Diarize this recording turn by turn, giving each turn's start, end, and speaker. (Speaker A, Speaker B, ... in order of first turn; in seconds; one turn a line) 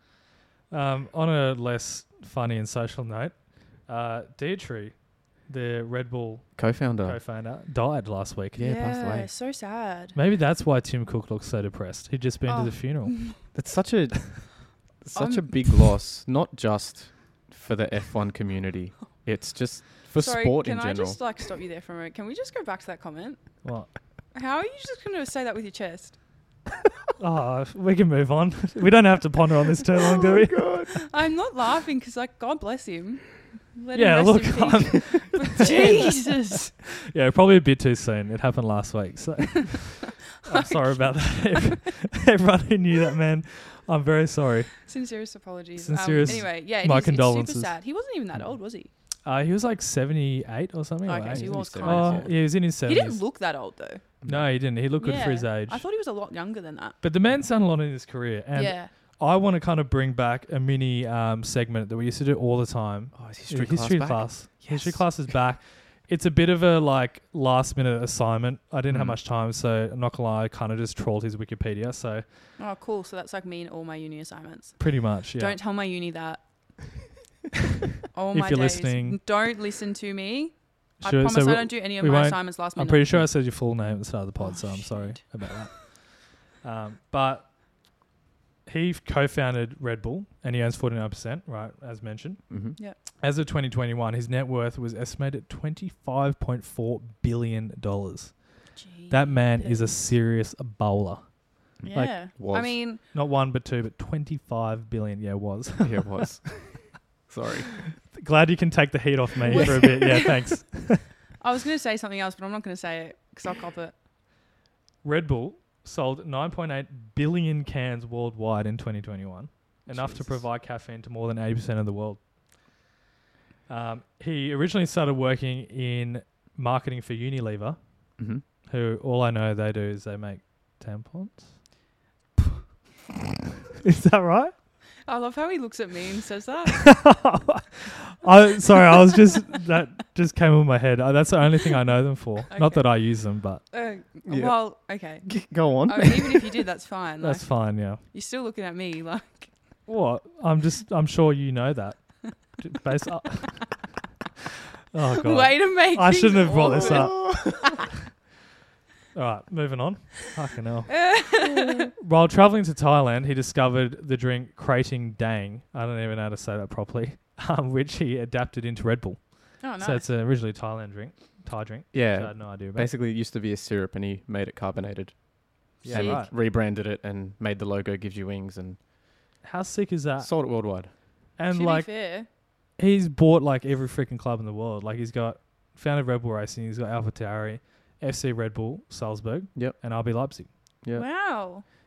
Speaker A: 0.7-8.6
Speaker B: 6.5-7.2
Speaker B: 8.6-9.3
Speaker C: 8.6-10.2
Speaker A: 10.1-13.2
Speaker C: 12.5-13.4
Speaker B: 13.5-21.2
Speaker C: 15.1-15.9
Speaker C: 20.2-23.6
Speaker A: 23.6-23.9
Speaker C: 24.3-26.2
Speaker A: 27.2-30.7
Speaker B: 30.3-30.9
Speaker C: 30.9-36.7
Speaker A: 33.9-44.8
Speaker C: 40.4-41.6
Speaker C: 44.8-48.9
Speaker A: 45.8-47.8
Speaker B: 46.2-46.5
Speaker A: 49.2-53.2
Speaker C: 51.0-54.1
Speaker B: 51.3-52.3
Speaker B: 54.2-54.6
Speaker A: 54.2-55.8
Speaker C: 55.0-57.0
Speaker A: 57.0-72.2
Speaker C: 58.5-58.9
Speaker B: 63.1-65.3
Speaker B: 68.9-69.2
Speaker C: 72.6-77.0
Speaker A: 74.8-75.6
Speaker C: 78.1-83.2
Speaker A: 78.3-79.2
Speaker A: 81.0-87.5
Speaker C: 84.4-85.4
Speaker A: 88.7-102.2
Speaker B: 92.5-92.8
Speaker C: 98.8-99.9
Speaker B: 101.8-102.7
Speaker C: 101.9-103.0
Speaker A: 102.9-106.1
Speaker B: 105.8-107.9
Speaker A: 108.1-111.1
Speaker C: 109.5-110.5
Speaker C: 111.4-114.0
Speaker A: 115.0-122.2
Speaker B: 119.9-120.4
Speaker A: 123.7-131.6
Speaker B: 128.2-128.4
Speaker A: 133.8-134.5
Speaker C: 135.0-137.2
Speaker A: 136.8-143.6
Speaker C: 142.5-149.5
Speaker B: 144.2-146.6
Speaker A: 147.2-148.0
Speaker A: 149.8-153.8
Speaker A: 154.9-157.6
Speaker C: 155.2-157.7
Speaker B: 156.7-157.6
Speaker A: 159.1-161.1
Speaker C: 160.9-161.9
Speaker A: 162.0-172.9
Speaker C: 169.6-170.1
Speaker B: 171.9-178.8
Speaker A: 175.8-176.3
Speaker C: 175.9-176.3
Speaker A: 179.4-180.3
Speaker B: 180.2-181.0
Speaker A: 181.3-190.5
Speaker C: 181.5-182.3
Speaker B: 189.5-189.9
Speaker C: 190.9-191.7